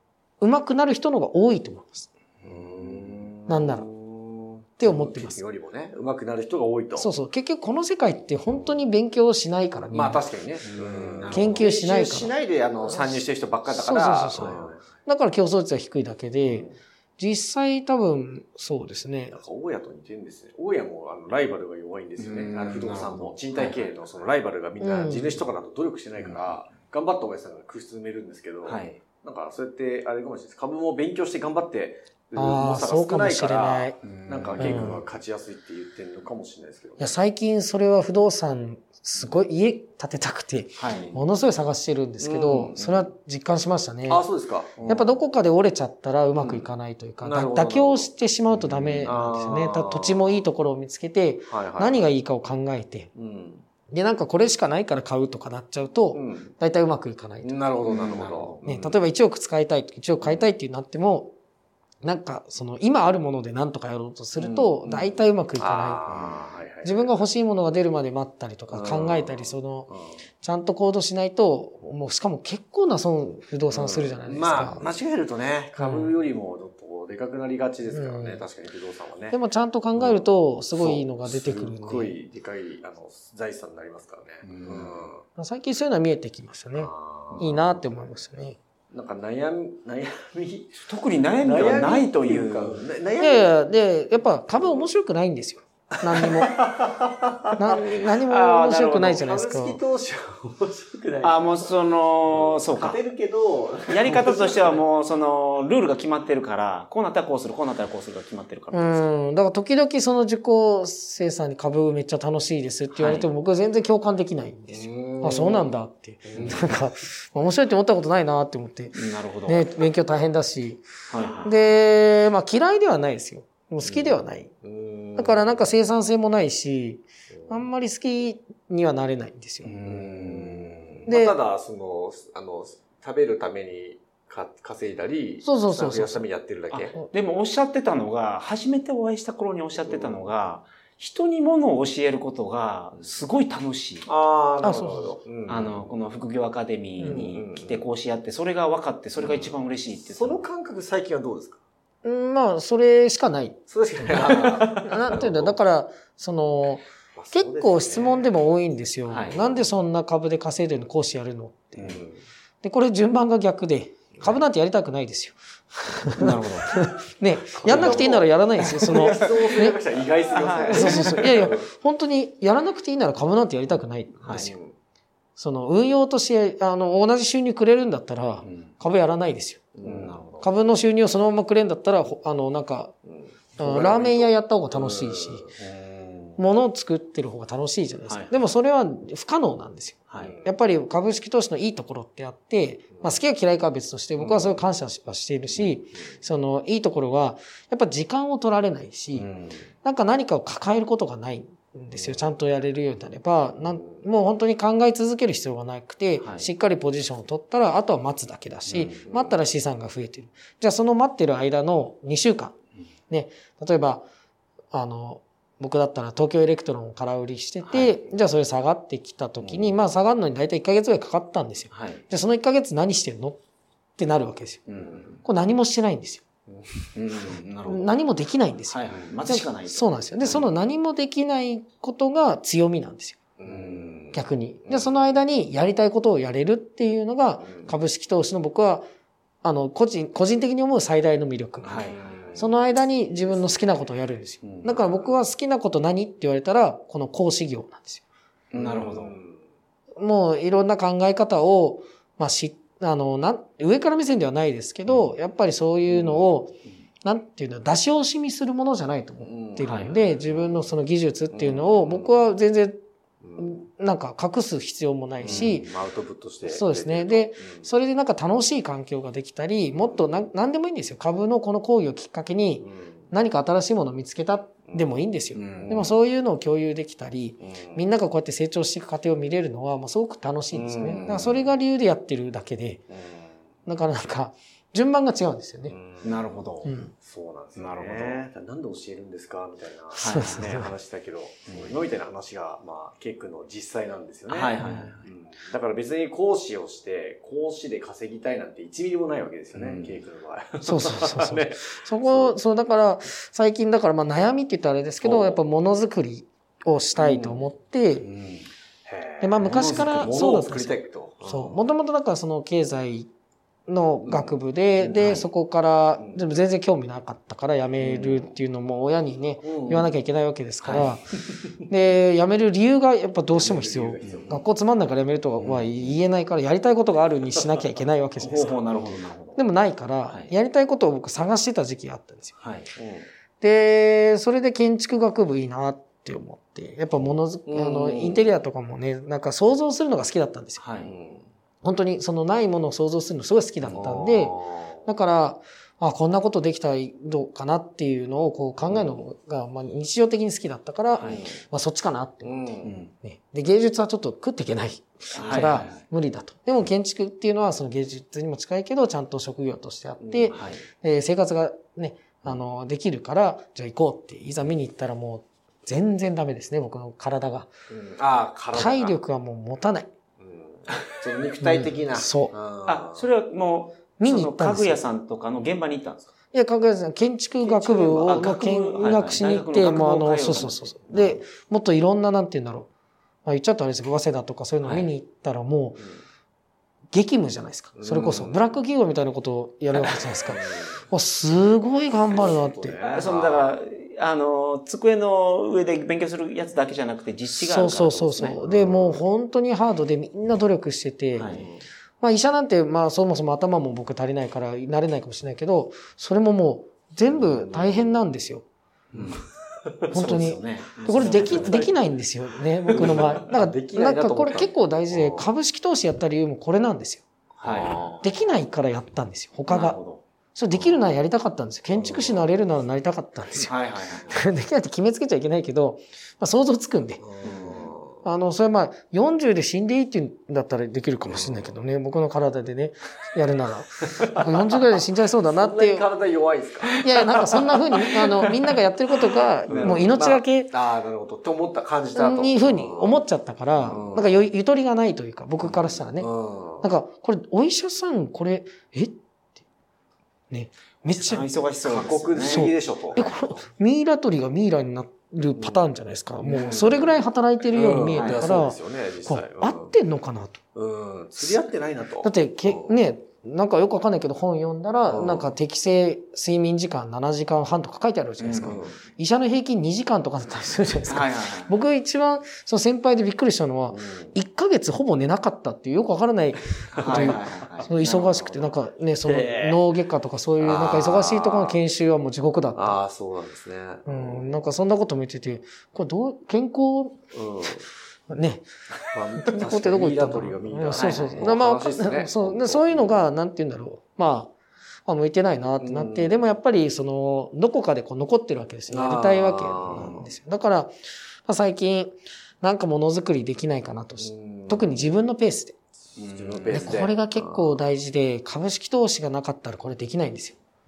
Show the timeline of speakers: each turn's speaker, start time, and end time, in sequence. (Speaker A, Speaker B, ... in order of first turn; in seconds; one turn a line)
Speaker A: 0.4-2.1
Speaker B: 2.4-3.3
Speaker C: 2.4-7.1
Speaker A: 3.5-3.9
Speaker A: 4.8-5.4
Speaker A: 7.0-10.2
Speaker C: 8.6-8.8
Speaker C: 9.9-14.8
Speaker B: 10.6-11.6
Speaker A: 11.3-12.3
Speaker A: 12.8-19.4
Speaker C: 16.4-16.8
Speaker C: 19.3-37.1
Speaker B: 22.2-23.8
Speaker A: 24.8-25.4
Speaker B: 26.2-26.5
Speaker B: 28.6-29.0
Speaker A: 32.4-34.0
Speaker B: 34.0-35.0
Speaker A: 34.6-35.0
Speaker A: 37.0-44.2
Speaker B: 40.8-41.1
Speaker C: 42.2-42.8
Speaker C: 44.1-45.2
Speaker A: 44.9-53.1
Speaker C: 46.4-46.7
Speaker C: 47.2-48.1
Speaker B: 48.5-49.1
Speaker C: 49.0-50.2
Speaker C: 51.5-52.1
Speaker C: 53.1-53.6
Speaker A: 53.9-57.6
Speaker C: 56.1-56.5
Speaker C: 57.4-59.0
Speaker B: 57.9-58.7
Speaker A: 58.6-61.3
Speaker A: 62.0-66.2
Speaker C: 64.4-67.1
Speaker A: 66.8-69.9
Speaker C: 68.7-70.2
Speaker A: 70.4-74.8
Speaker C: 73.7-79.4
Speaker A: 75.8-76.1
Speaker A: 77.9-78.4
Speaker A: 79.3-82.1
Speaker C: 80.0-80.2
Speaker C: 80.8-85.2
Speaker B: 84.4-85.0
Speaker A: 85.4-88.6
Speaker C: 86.8-87.6
Speaker C: 88.9-90.9
Speaker B: 90.9-92.8
Speaker C: 91.4-93.6
Speaker A: 93.2-96.7
Speaker C: 94.6-94.9
Speaker C: 96.1-97.8
Speaker A: 97.6-99.8
Speaker B: 98.2-99.2
Speaker C: 99.0-101.7
Speaker B: 101.2-103.0
Speaker C: 102.3-104.8
Speaker B: 103.9-109.0
Speaker A: 108.7-120.8
Speaker B: 112.9-113.3
Speaker C: 114.7-115.7
Speaker C: 116.2-116.8
Speaker B: 119.0-119.7
Speaker B: 121.1-121.5
Speaker A: 121.4-124.5
Speaker C: 124.6-125.7
Speaker A: 125.2-129.7
Speaker C: 127.4-127.6
Speaker B: 129.6-131.1
Speaker C: 129.9-136.9
Speaker A: 131.1-131.3
Speaker A: 135.4-136.2
Speaker B: 136.7-144.1
Speaker C: 139.9-140.2
Speaker C: 144.1-145.9
Speaker A: 144.6-145.1
Speaker B: 145.5-150.4
Speaker C: 147.0-147.8
Speaker C: 149.2-149.5
Speaker C: 150.1-151.6
Speaker A: 152.0-161.9
Speaker C: 153.7-155.5
Speaker B: 154.3-154.6
Speaker C: 157.2-158.2
Speaker B: 159.1-159.4
Speaker C: 159.3-159.6
Speaker C: 161.8-162.2
Speaker A: 162.6-169.8
Speaker B: 166.2-166.7
Speaker C: 167.6-171.7
Speaker B: 167.7-168.1
Speaker B: 168.8-169.5
Speaker B: 170.3-171.3
Speaker A: 170.7-174.5
Speaker B: 174.2-174.5
Speaker C: 174.3-174.8
Speaker A: 175.4-179.6
Speaker B: 178.4-178.7
Speaker C: 179.8-180.3
Speaker B: 179.8-180.4
Speaker A: 180.4-182.9
Speaker C: 183.1-185.6
Speaker A: 183.6-185.4
Speaker B: 185.6-186.4
Speaker A: 186.4-199.3
Speaker B: 188.1-188.3
Speaker B: 190.1-190.3
Speaker C: 190.2-190.5
Speaker B: 199.2-199.6
Speaker A: 199.8-212.6
Speaker B: 206.2-206.5
Speaker B: 208.7-209.0
Speaker C: 208.7-209.3
Speaker A: 213.1-214.0
Speaker A: 214.7-223.4
Speaker B: 217.7-217.9
Speaker B: 219.4-219.8
Speaker B: 221.7-222.0
Speaker A: 224.0-224.6
Speaker B: 224.7-225.2
Speaker A: 225.2-226.2
Speaker C: 226.5-226.9
Speaker B: 226.9-227.9
Speaker A: 227.7-233.2
Speaker B: 228.7-230.5
Speaker C: 233.4-234.9
Speaker B: 233.4-234.0
Speaker A: 234.1-238.8
Speaker C: 237.4-237.7
Speaker A: 239.4-248.0
Speaker B: 241.6-242.3
Speaker C: 241.7-242.5
Speaker B: 244.4-244.7
Speaker C: 244.7-245.1
Speaker B: 248.5-249.2
Speaker C: 248.6-249.4
Speaker A: 250.0-262.8
Speaker C: 255.9-256.2
Speaker C: 259.2-260.2
Speaker B: 259.6-260.0
Speaker C: 261.3-262.2
Speaker C: 263.2-263.6
Speaker A: 263.4-265.7
Speaker C: 265.2-267.7
Speaker B: 265.2-265.6
Speaker A: 266.5-282.8
Speaker C: 272.6-273.0
Speaker B: 275.4-275.9
Speaker C: 275.5-275.9
Speaker C: 277.4-277.8
Speaker C: 280.5-281.4
Speaker B: 280.9-281.3
Speaker C: 282.9-283.4
Speaker A: 283.7-285.8
Speaker C: 285.7-286.4
Speaker B: 286.0-286.7
Speaker A: 286.6-286.9
Speaker C: 286.9-302.4
Speaker B: 287.6-288.2
Speaker B: 289.9-290.6
Speaker A: 290.0-290.7
Speaker B: 294.3-295.0
Speaker A: 294.6-294.9
Speaker B: 299.5-300.0
Speaker A: 300.6-308.1
Speaker C: 305.0-305.4
Speaker C: 307.0-307.4
Speaker B: 308.0-308.5
Speaker C: 308.9-311.6
Speaker A: 309.2-313.1
Speaker B: 309.4-310.1
Speaker A: 313.7-321.1
Speaker C: 314.1-314.4
Speaker B: 314.8-315.2
Speaker C: 316.0-316.3
Speaker C: 317.8-318.3
Speaker C: 319.4-320.0
Speaker B: 320.6-320.9
Speaker A: 321.7-328.6
Speaker C: 323.3-324.4
Speaker B: 324.0-324.3
Speaker B: 325.4-325.7
Speaker B: 328.2-329.4
Speaker C: 328.2-328.9
Speaker A: 329.4-332.4
Speaker B: 332.4-332.7
Speaker C: 332.8-333.1
Speaker A: 333.4-340.6
Speaker C: 337.5-338.3
Speaker B: 340.6-340.9
Speaker C: 340.8-341.3
Speaker A: 341.6-367.5
Speaker C: 343.7-344.8
Speaker C: 348.7-348.9
Speaker C: 351.0-351.4
Speaker C: 352.2-352.9
Speaker B: 352.6-352.9
Speaker B: 355.1-355.8
Speaker C: 355.2-355.6
Speaker C: 360.0-360.4
Speaker B: 360.3-360.6
Speaker C: 367.7-369.0
Speaker A: 368.5-369.9
Speaker C: 370.2-373.0
Speaker A: 371.4-372.3
Speaker B: 372.6-376.1
Speaker A: 374.0-374.8
Speaker A: 376.3-382.7
Speaker B: 377.4-380.8
Speaker A: 383.2-385.9
Speaker B: 384.6-384.9
Speaker A: 386.9-392.8
Speaker C: 387.8-388.4
Speaker C: 390.2-390.8
Speaker C: 392.1-393.5
Speaker B: 392.9-398.4
Speaker A: 397.4-401.3
Speaker C: 398.4-399.0
Speaker B: 401.2-401.5
Speaker C: 401.3-401.6
Speaker A: 402.0-408.4
Speaker C: 407.1-407.9
Speaker C: 408.9-409.9
Speaker B: 408.9-409.2
Speaker B: 409.9-411.7
Speaker A: 409.9-417.1
Speaker C: 410.9-411.7
Speaker C: 412.7-415.3
Speaker C: 417.3-418.1
Speaker B: 417.4-417.9
Speaker A: 418.0-419.8
Speaker B: 419.5-420.0
Speaker A: 420.4-423.5
Speaker C: 421.8-422.2
Speaker B: 423.4-424.1
Speaker A: 424.1-427.0
Speaker C: 427.0-428.0
Speaker B: 427.2-427.7
Speaker A: 428.0-435.9
Speaker C: 431.1-431.5
Speaker C: 434.0-434.6
Speaker C: 435.3-438.3
Speaker A: 436.8-440.5
Speaker C: 439.5-443.0
Speaker B: 439.5-439.9
Speaker A: 441.9-446.1
Speaker C: 443.6-444.2
Speaker C: 445.4-446.7
Speaker A: 446.6-449.0
Speaker A: 450.3-451.3
Speaker B: 450.9-452.5
Speaker C: 451.6-453.1
Speaker A: 452.2-460.4
Speaker C: 455.4-455.6
Speaker C: 456.2-456.9
Speaker C: 457.5-459.7
Speaker B: 457.9-458.3
Speaker C: 460.6-462.7
Speaker A: 462.0-482.8
Speaker C: 464.9-465.3
Speaker B: 468.2-468.6
Speaker C: 468.4-468.8
Speaker B: 470.9-471.5
Speaker C: 473.7-474.1
Speaker B: 476.7-477.7
Speaker C: 476.8-477.2
Speaker C: 477.8-478.5
Speaker C: 479.0-479.6
Speaker C: 480.4-481.6
Speaker C: 482.6-484.2
Speaker A: 483.9-487.0
Speaker C: 487.1-487.6
Speaker A: 488.1-488.4
Speaker C: 488.9-492.9
Speaker A: 489.2-494.3
Speaker B: 490.8-491.3
Speaker A: 494.9-500.7
Speaker C: 495.6-496.2
Speaker C: 498.7-500.1
Speaker A: 501.3-505.6
Speaker C: 504.0-504.9
Speaker B: 506.0-506.9
Speaker C: 506.0-507.6
Speaker A: 506.5-510.4